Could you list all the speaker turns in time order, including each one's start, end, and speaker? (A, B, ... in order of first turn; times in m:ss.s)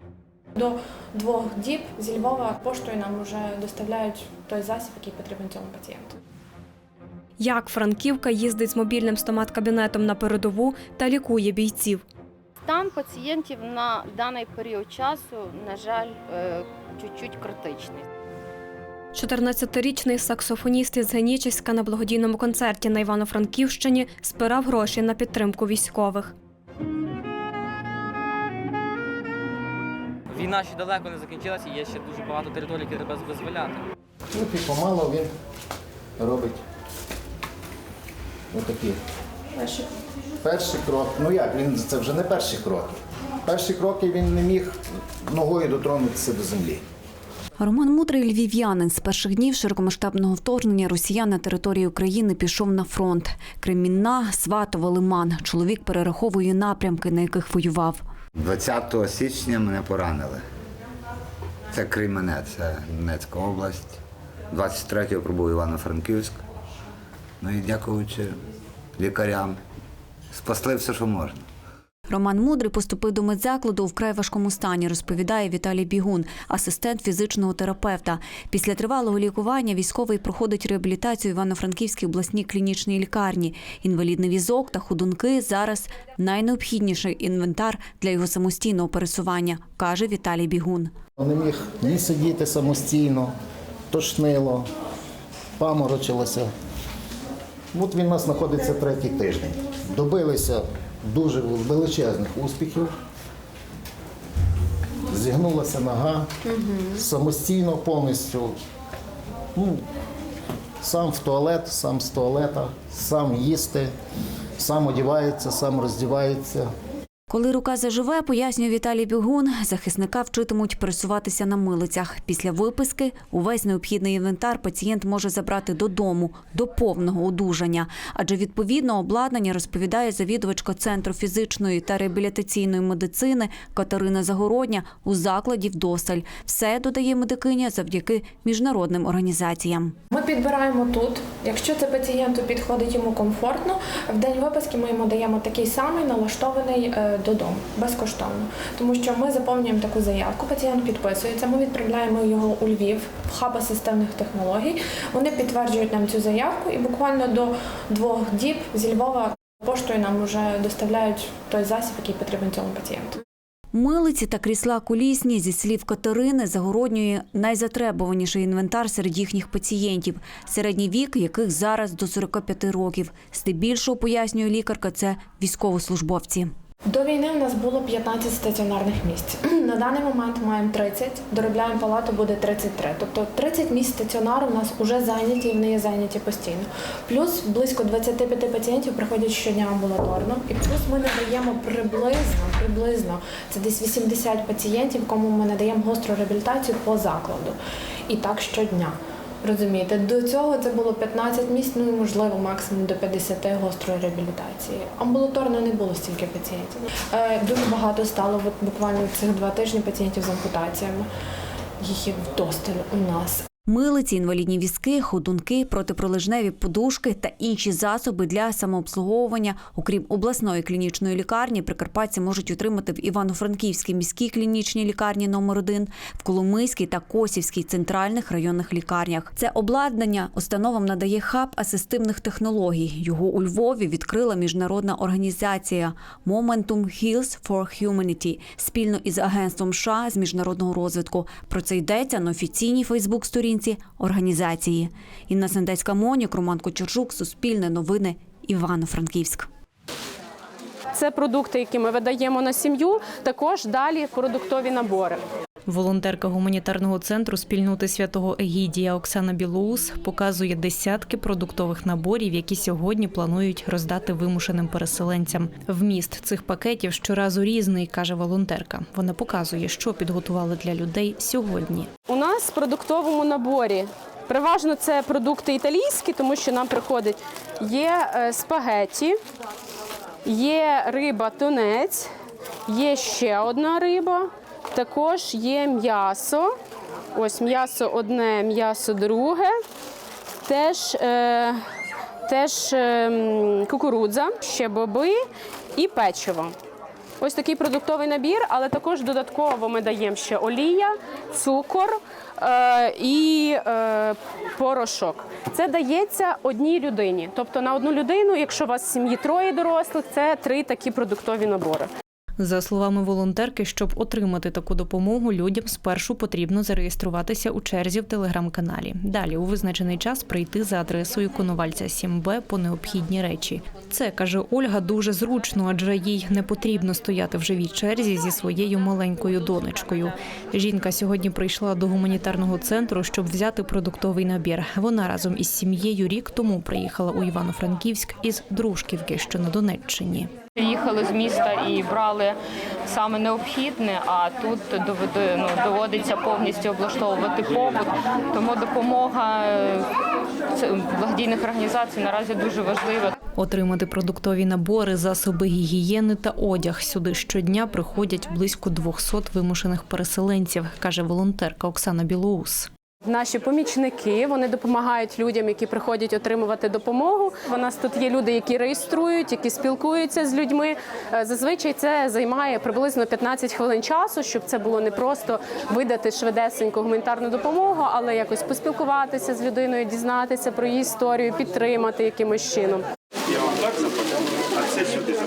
0:00.5-0:06.1 A
0:07.4-0:12.0 B
0:12.6-0:18.1 C
0:19.1-0:26.3 B
0:30.3-0:33.8 D
0:34.3-0:35.3 E
0:36.2-0:36.6 E
0:38.5-0:39.0 E
0:40.4-0:46.8 E
0:47.6-0:58.0 F
0:58.4-1:00.4 G
1:01.7-1:04.0 G
1:04.5-1:06.4 G
1:07.4-1:08.3 G
1:09.0-1:09.6 G
1:10.3-1:11.4 G
1:12.1-1:30.9 F
1:31.2-1:33.3 E
1:33.9-1:34.6 E
1:35.6-1:36.5 E
1:37.7-1:42.9 E
1:45.1-1:46.3 E
1:46.9-1:48.5 E
1:49.6-1:49.8 E
1:50.8-1:53.9 E
1:54.6-1:56.7 E
1:57.3-2:19.9 F
2:20.1-2:43.2 A
2:43.7-2:56.5 F
2:56.8-3:17.6 A
3:18.1-3:31.1 A
3:31.8-3:33.4 A
3:33.7-4:09.5 F
4:11.0-4:15.2 H
4:15.7-4:31.9 I
4:32.1-4:39.1 H
4:40.2-4:42.1 H
4:42.7-4:46.5 H
4:47.2-4:49.5 H
4:50.5-4:51.6 H
4:52.3-4:55.2 H
4:55.8-4:56.5 H
4:57.2-5:11.9 H
5:12.4-5:40.3 I
5:40.6-5:49.9 J
5:50.5-5:53.1 J
5:53.4-6:02.7 I
6:03.0-6:22.8 H